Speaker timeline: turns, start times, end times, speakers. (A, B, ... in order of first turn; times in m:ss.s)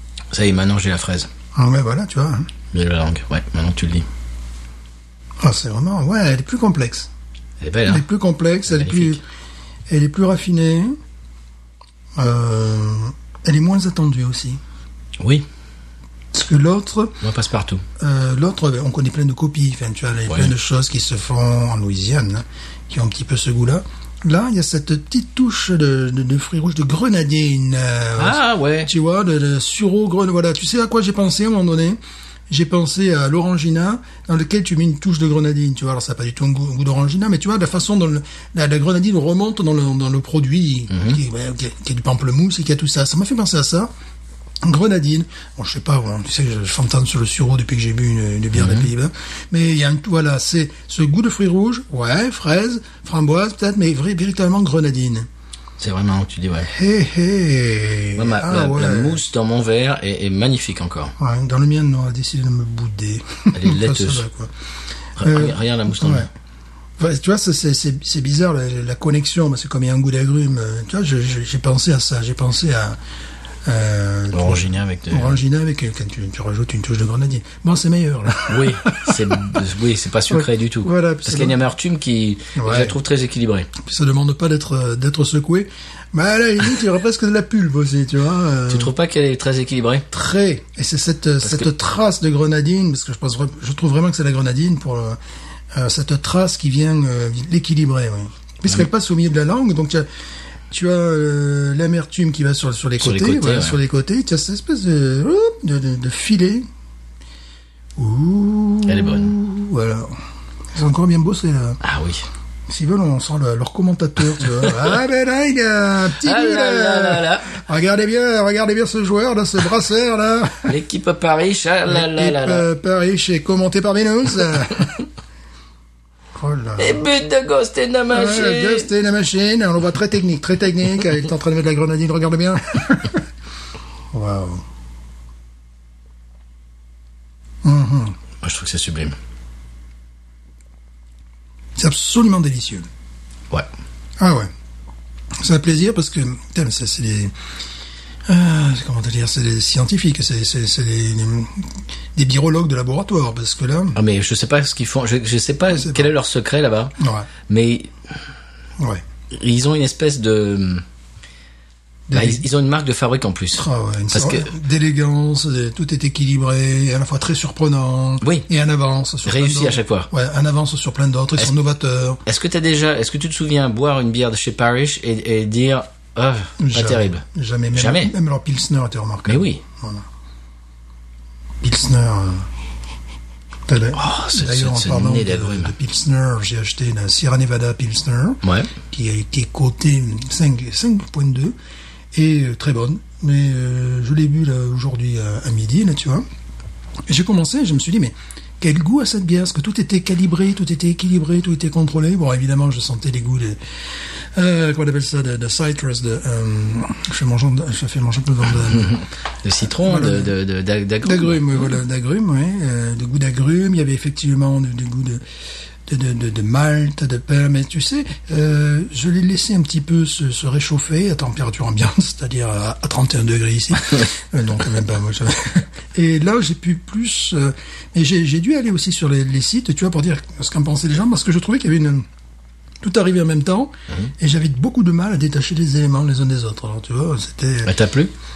0:00.3-0:01.3 A
0:01.6-0:02.5 B
0:02.7-0:04.1 A
0:05.4-0:07.1 B
0:07.6-0:08.0 A
0:07.9-0:09.2 B
0:08.7-0:09.2 A
0:09.9-0:11.0 B
0:12.2-0:14.6 B
0:15.2-0:15.5 A
0:16.3-0:17.2 B
0:17.2-0:17.8 A
0:18.0-0:32.0 B
0:20.3-0:20.5 A
0:28.2-0:28.9 A
0:32.5-0:43.9 B
0:40.9-0:41.2 A
0:44.6-0:55.3 B
0:48.6-0:48.9 A
0:55.8-0:56.7 A
0:56.6-0:59.2 B
0:58.2-1:01.2 A
1:01.2-1:04.5 B
1:03.5-1:04.2 A
1:05.2-1:06.3 A
1:05.2-1:06.3 B
1:07.0-1:13.0 B
1:13.6-1:19.6 B
1:14.3-1:15.4 A
1:18.5-1:23.7 A
1:20.3-1:21.6 B
1:22.6-1:23.0 B
1:23.8-1:28.9 B
1:28.7-1:30.1 A
1:30.1-1:35.2 B
1:35.7-1:40.1 B
1:40.7-1:46.7 B
1:43.0-1:43.8 A
1:48.0-1:50.2 B
1:48.9-1:49.4 A
1:50.7-1:51.8 B
1:51.8-1:52.2 A
1:52.7-2:00.7 B
1:56.2-1:57.5 A
2:00.7-2:02.7 A
2:01.9-2:05.0 B
2:06.4-2:07.1 B
2:06.8-2:08.9 A
2:08.1-2:13.2 B
2:14.1-2:14.6 B
2:17.6-2:18.2 B
2:18.4-2:19.2 A
2:21.8-2:22.9 B
2:24.2-2:24.5 B
2:25.4-2:27.3 B
2:28.3-2:34.0 B
2:34.0-2:37.0 A
2:35.7-2:36.1 B
2:37.0-2:37.3 B
2:37.5-2:37.9 A
2:39.3-2:40.8 A
2:42.1-2:42.4 B
2:42.1-2:44.5 A
2:43.6-2:52.2 B
2:48.2-2:48.5 A
2:49.2-2:50.1 A
2:52.3-2:58.1 A
2:56.6-3:00.0 B
2:59.3-2:59.6 A
3:01.6-3:02.5 B
3:03.7-3:11.6 B
3:03.9-3:05.7 A
3:08.4-3:08.7 A
3:12.1-3:16.3 B
3:17.1-3:29.0 B
3:28.9-3:31.4 A
3:29.8-3:30.3 B
3:31.0-3:35.2 B
3:35.9-3:52.1 B
3:52.8-3:57.7 B
3:57.6-3:58.1 A